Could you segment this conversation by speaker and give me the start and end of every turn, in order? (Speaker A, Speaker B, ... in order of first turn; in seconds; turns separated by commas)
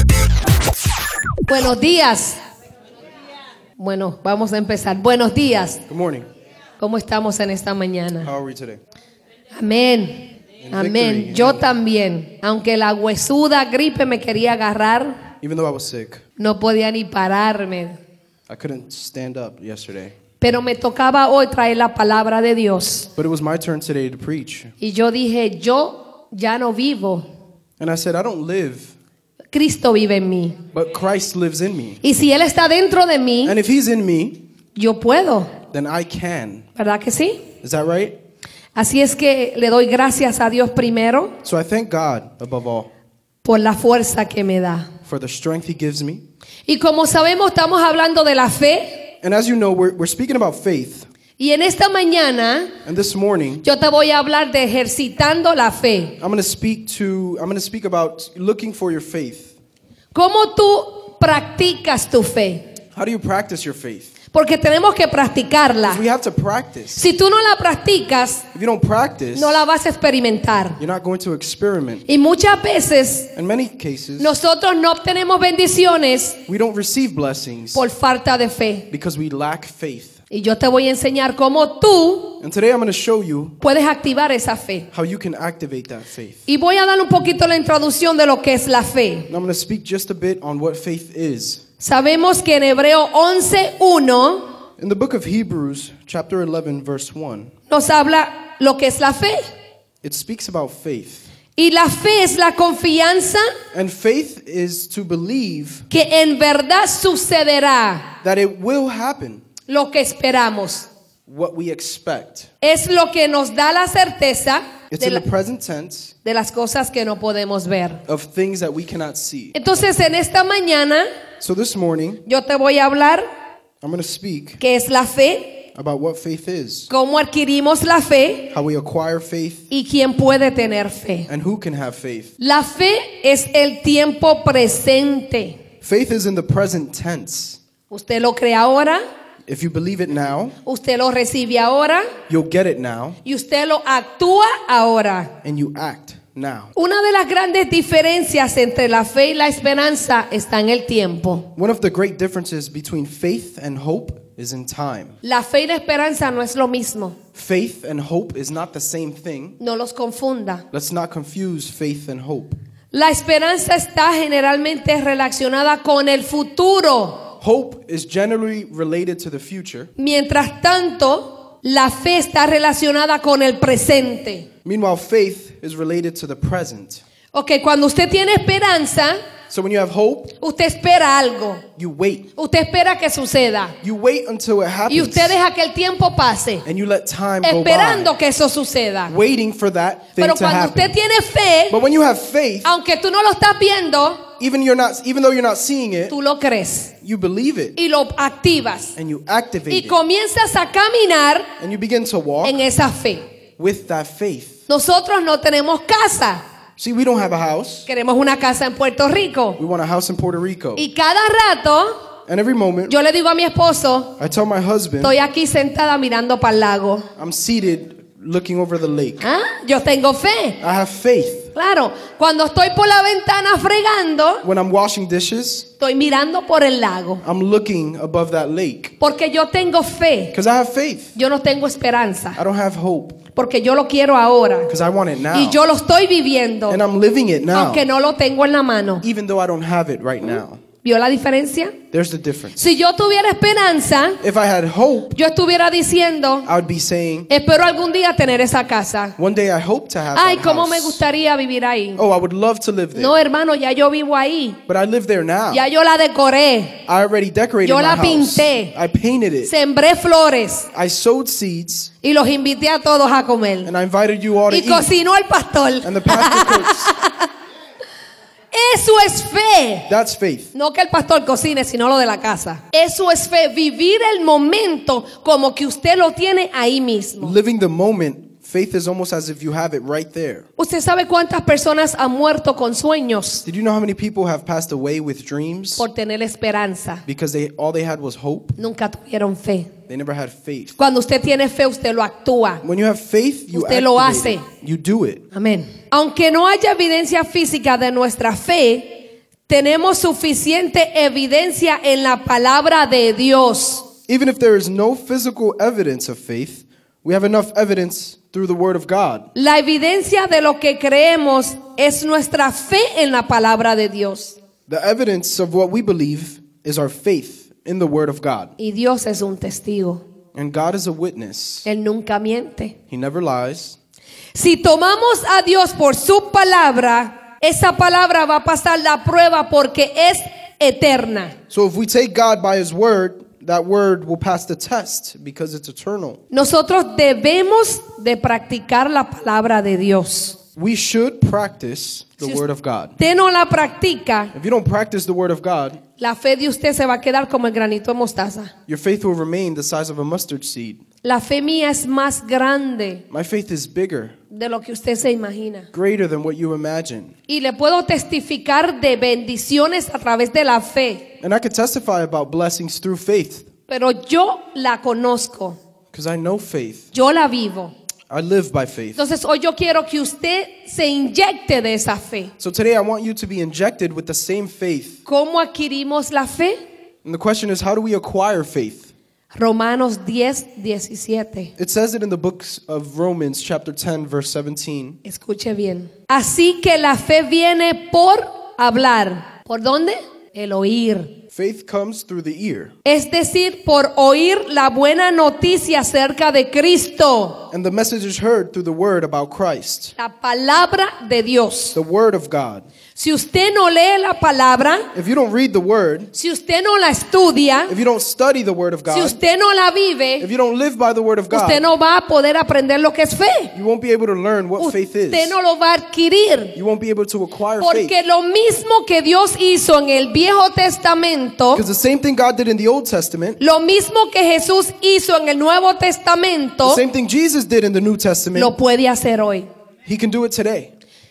Speaker A: 1.5-2.4, Speaker A: 3.8-5.8, Speaker B: 5.9-6.3, Speaker A: 6.8-8.3, Speaker B: 8.2-8.8, Speaker A: 9.5-15.3, Speaker B: 10.6-11.7, Speaker B: 15.4-16.2, Speaker A: 16.4-18.0, Speaker B: 18.5-20.2, Speaker A: 20.4-23.1, Speaker B: 23.1-24.7, Speaker A: 24.8-27.2, Speaker B: 27.8-28.9, Speaker A: 29.5-30.6, Speaker B: 30.7-32.0, Speaker A: 32.0-33.6, Speaker B: 33.5-34.5, Speaker A: 34.7-35.5, Speaker B: 35.7-36.7, Speaker A: 36.8-37.5, Speaker B: 37.6-38.2, Speaker A: 38.7-41.4, Speaker B: 41.4-42.9, Speaker A: 43.4-44.9, Speaker B: 45.0-46.2, Speaker A: 46.7-49.1, Speaker B: 49.2-51.1, Speaker A: 51.4-52.8, Speaker B: 52.8-53.6, Speaker A: 53.6-56.2, Speaker B: 56.2-59.5, Speaker A: 60.1-62.6, Speaker B: 62.9-64.1, Speaker A: 64.3-66.0, Speaker B: 65.8-67.0, Speaker A: 66.9-68.5, Speaker B: 68.5-69.7, Speaker A: 69.3-70.8, Speaker B: 70.8-72.0, Speaker A: 72.1-73.3, Speaker B: 73.3-74.4, Speaker A: 74.2-76.4, Speaker B: 76.5-77.8, Speaker A: 77.7-78.9, Speaker B: 78.9-80.2, Speaker A: 80.3-82.4, Speaker B: 82.4-83.6, Speaker A: 83.6-84.9, Speaker B: 84.9-86.5, Speaker A: 86.5-89.3, Speaker B: 89.3-91.6, Speaker A: 91.8-94.5, Speaker B: 94.8-97.5, Speaker A: 97.7-99.5, Speaker B: 100.0-101.2, Speaker A: 101.6-103.5, Speaker B: 103.7-105.9, Speaker A: 105.9-108.1, Speaker B: 108.2-109.4, Speaker A: 109.7-110.9, Speaker B: 111.3-112.5, Speaker A: 112.6-115.2, Speaker B: 114.9-116.1, Speaker A: 116.2-118.0, Speaker B: 118.1-119.5, Speaker A: 119.5-121.1, Speaker B: 121.4-122.2, Speaker A: 122.2-123.2, Speaker B: 123.8-124.6, Speaker A: 124.6-125.7, Speaker B: 125.8-126.9, Speaker A: 126.9-128.5, Speaker B: 128.5-129.7, Speaker A: 129.7-131.3, Speaker B: 131.3-132.3, Speaker A: 132.4-135.6, Speaker B: 135.8-137.6, Speaker A: 137.9-139.0, Speaker B: 139.5-140.6, Speaker A: 140.6-142.1, Speaker B: 142.3-143.2, Speaker A: 143.2-145.3, Speaker B: 145.4-146.7, Speaker A: 146.8-151.5, Speaker B: 151.6-155.2, Speaker A: 155.2-157.2, Speaker B: 157.3-159.6, Speaker A: 159.6-160.7, Speaker B: 160.7-162.6, Speaker A: 162.9-167.3, Speaker B: 167.4-169.9, Speaker A: 170.0-174.5, Speaker B: 174.7-177.0, Speaker A: 177.3-179.2, Speaker B: 179.5-180.3, Speaker A: 180.4-181.7, Speaker B: 181.8-182.3, Speaker A: 182.4-183.8, Speaker B: 183.8-185.4, Speaker A: 184.9-186.7, Speaker B: 186.7-188.1, Speaker A: 187.4-189.1, Speaker B: 189.1-190.9, Speaker A: 190.2-191.8, Speaker B: 191.7-192.7, Speaker A: 192.7-194.2, Speaker B: 194.4-196.2, Speaker A: 196.1-196.9, Speaker B: 197.0-197.8, Speaker A: 197.8-198.9, Speaker B: 199.0-200.0, Speaker A: 199.7-201.5, Speaker B: 201.6-202.6, Speaker A: 202.4-203.3, Speaker B: 203.6-204.6, Speaker A: 204.7-206.4, Speaker B: 206.8-207.9, Speaker A: 207.9-209.6, Speaker B: 209.6-210.8, Speaker A: 210.8-212.0, Speaker B: 212.2-213.0, Speaker A: 212.9-214.2, Speaker B: 214.2-215.2, Speaker A: 215.0-217.1, Speaker B: 217.2-219.2, Speaker A: 219.2-220.6, Speaker B: 220.6-221.5, Speaker A: 221.5-224.4, Speaker B: 224.4-225.7, Speaker A: 225.8-227.2, Speaker B: 227.2-228.9, Speaker A: 229.0-230.3, Speaker B: 230.3-231.2, Speaker A: 231.2-232.4, Speaker B: 232.3-233.2, Speaker A: 233.3-234.7, Speaker B: 234.7-235.6, Speaker A: 235.3-236.8, Speaker B: 236.7-237.8, Speaker A: 237.5-239.0, Speaker B: 239.0-240.6, Speaker A: 240.8-241.8, Speaker B: 241.9-242.6, Speaker A: 242.6-244.2, Speaker B: 244.2-245.2, Speaker A: 245.1-246.5, Speaker B: 246.4-247.3, Speaker A: 247.3-249.2, Speaker B: 249.2-251.0, Speaker A: 250.1-252.0, Speaker B: 252.0-253.1, Speaker A: 252.9-254.6, Speaker B: 254.7-255.6, Speaker A: 255.5-256.9, Speaker B: 256.9-259.5, Speaker A: 257.6-258.7, Speaker A: 259.4-260.7, Speaker B: 260.7-261.9, Speaker A: 262.0-263.7, Speaker B: 263.6-264.9, Speaker A: 264.5-267.3, Speaker B: 265.8-266.9, Speaker A: 268.5-269.9, Speaker B: 269.9-270.5, Speaker A: 270.5-277.4, Speaker B: 277.2-280.4, Speaker A: 280.6-283.4, Speaker B: 283.4-285.9, Speaker A: 285.8-287.0, Speaker B: 287.1-288.6, Speaker A: 288.6-289.7, Speaker B: 289.9-290.8, Speaker A: 290.8-292.6, Speaker B: 292.6-295.3, Speaker A: 293.5-294.5, Speaker A: 295.3-303.9, Speaker B: 304.1-309.3, Speaker A: 309.4-314.4, Speaker B: 314.7-318.5, Speaker A: 318.6-320.0, Speaker B: 320.3-321.7, Speaker A: 321.6-322.8, Speaker B: 322.9-323.8, Speaker A: 324.4-331.4, Speaker B: 331.5-336.2, Speaker A: 336.3-340.4, Speaker B: 340.6-343.0, Speaker A: 343.0-344.3, Speaker B: 344.3-345.8, Speaker A: 346.0-348.5, Speaker B: 348.7-350.8, Speaker A: 351.0-353.1, Speaker B: 353.1-354.1, Speaker A: 354.3-355.7, Speaker B: 355.7-357.1, Speaker A: 357.3-361.1, Speaker B: 361.2-363.5, Speaker A: 363.7-365.6, Speaker B: 365.9-366.9, Speaker A: 366.9-367.7, Speaker B: 368.1-369.0, Speaker A: 369.0-372.3, Speaker B: 372.4-375.0, Speaker A: 375.1-376.6, Speaker B: 377.1-378.9, Speaker A: 379.4-381.5, Speaker B: 381.6-385.0, Speaker A: 385.0-391.2, Speaker B: 391.3-392.8, Speaker A: 392.9-397.5, Speaker B: 397.5-399.9, Speaker A: 400.0-401.8, Speaker B: 401.7-402.7, Speaker A: 403.0-404.9, Speaker B: 404.9-406.1, Speaker A: 406.1-407.8, Speaker B: 407.7-409.2, Speaker A: 408.9-410.3, Speaker B: 410.2-411.6, Speaker A: 411.3-413.5, Speaker B: 413.5-415.4, Speaker A: 414.6-416.6, Speaker B: 416.6-417.9, Speaker A: 417.6-421.6, Speaker B: 421.5-423.4, Speaker A: 423.4-426.8, Speaker B: 426.6-428.5, Speaker A: 428.4-429.5, Speaker B: 429.9-430.7